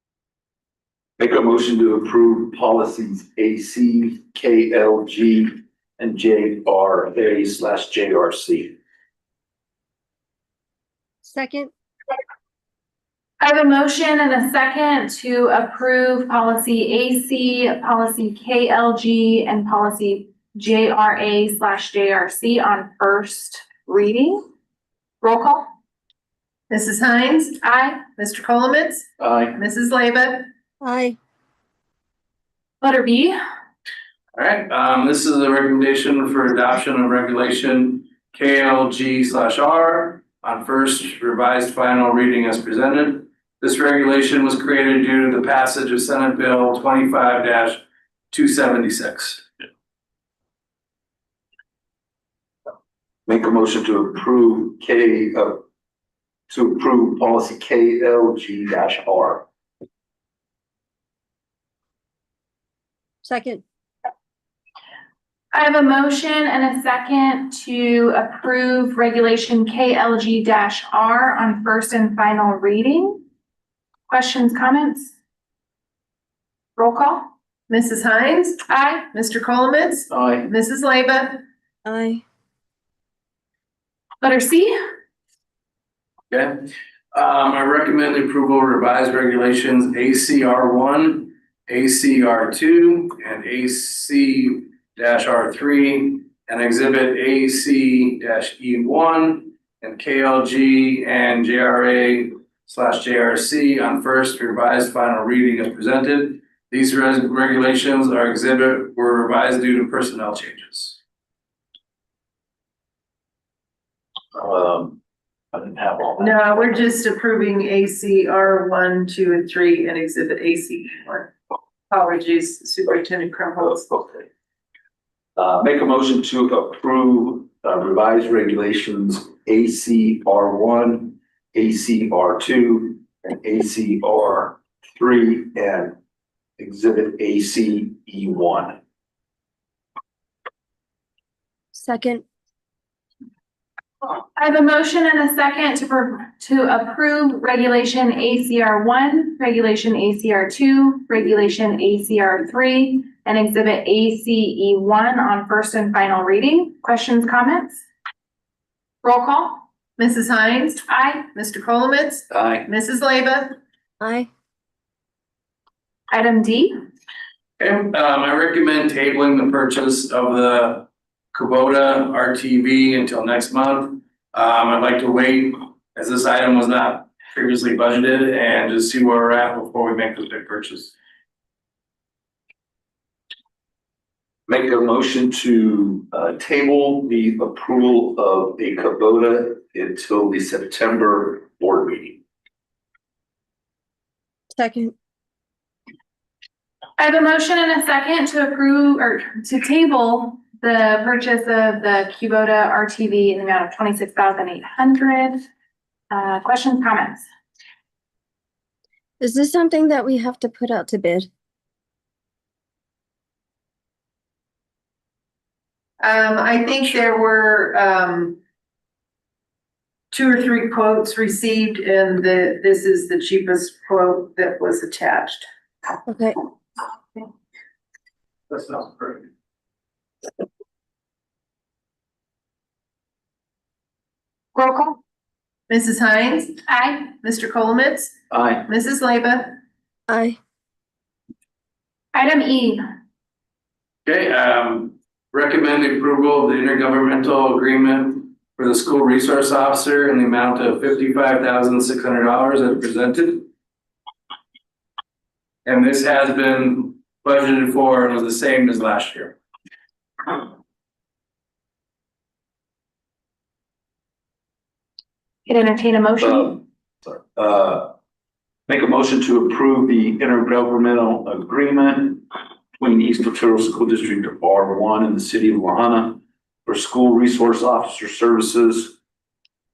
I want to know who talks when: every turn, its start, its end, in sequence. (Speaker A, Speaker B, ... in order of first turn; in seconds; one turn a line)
Speaker A: 1.2-8.8
Speaker B: 11.2-11.7
Speaker C: 13.4-24.4
Speaker C: 25.2-25.7
Speaker D: 26.7-30.5
Speaker C: 27.6-28.1
Speaker A: 29.2-29.6
Speaker B: 30.8-31.2
Speaker C: 32.8-33.3
Speaker E: 34.3-49.5
Speaker A: 53.2-55.6
Speaker A: 56.5-59.5
Speaker B: 63.2-63.6
Speaker C: 65.5-73.2
Speaker C: 74.1-75.1
Speaker C: 76.8-77.2
Speaker D: 77.7-81.4
Speaker C: 78.7-79.1
Speaker A: 80.1-80.4
Speaker B: 81.8-82.2
Speaker C: 84.2-84.7
Speaker E: 86.3-111.0
Speaker A: 114.3-115.0
Speaker A: 115.5-116.4
Speaker D: 116.2-121.3
Speaker D: 121.9-123.9
Speaker A: 123.7-124.2
Speaker A: 125.3-135.9
Speaker A: 136.6-138.8
Speaker B: 141.7-142.2
Speaker C: 144.2-157.8
Speaker C: 159.0-159.6
Speaker D: 160.0-163.6
Speaker C: 160.9-161.3
Speaker A: 162.3-162.7
Speaker B: 164.0-164.3
Speaker C: 166.1-166.7
Speaker E: 167.6-180.9
Speaker A: 184.5-192.2
Speaker B: 194.5-194.9
Speaker C: 197.0-205.4
Speaker C: 206.1-207.2
Speaker B: 209.2-211.3
Speaker D: 216.0-218.4
Speaker D: 220.1-225.4
Speaker B: 226.1-226.4
Speaker E: 228.5-229.2
Speaker C: 234.5-235.0
Speaker D: 235.7-236.6
Speaker C: 236.6-237.1
Speaker D: 237.1-238.1
Speaker A: 238.3-238.6
Speaker D: 238.7-239.6
Speaker B: 240.1-240.4
Speaker C: 242.1-242.8
Speaker E: 244.1-253.5
Speaker E: 255.6-259.4
Speaker C: 265.4-266.6
Speaker A: 266.2-267.9
Speaker A: 268.7-272.2
Speaker A: 272.8-278.9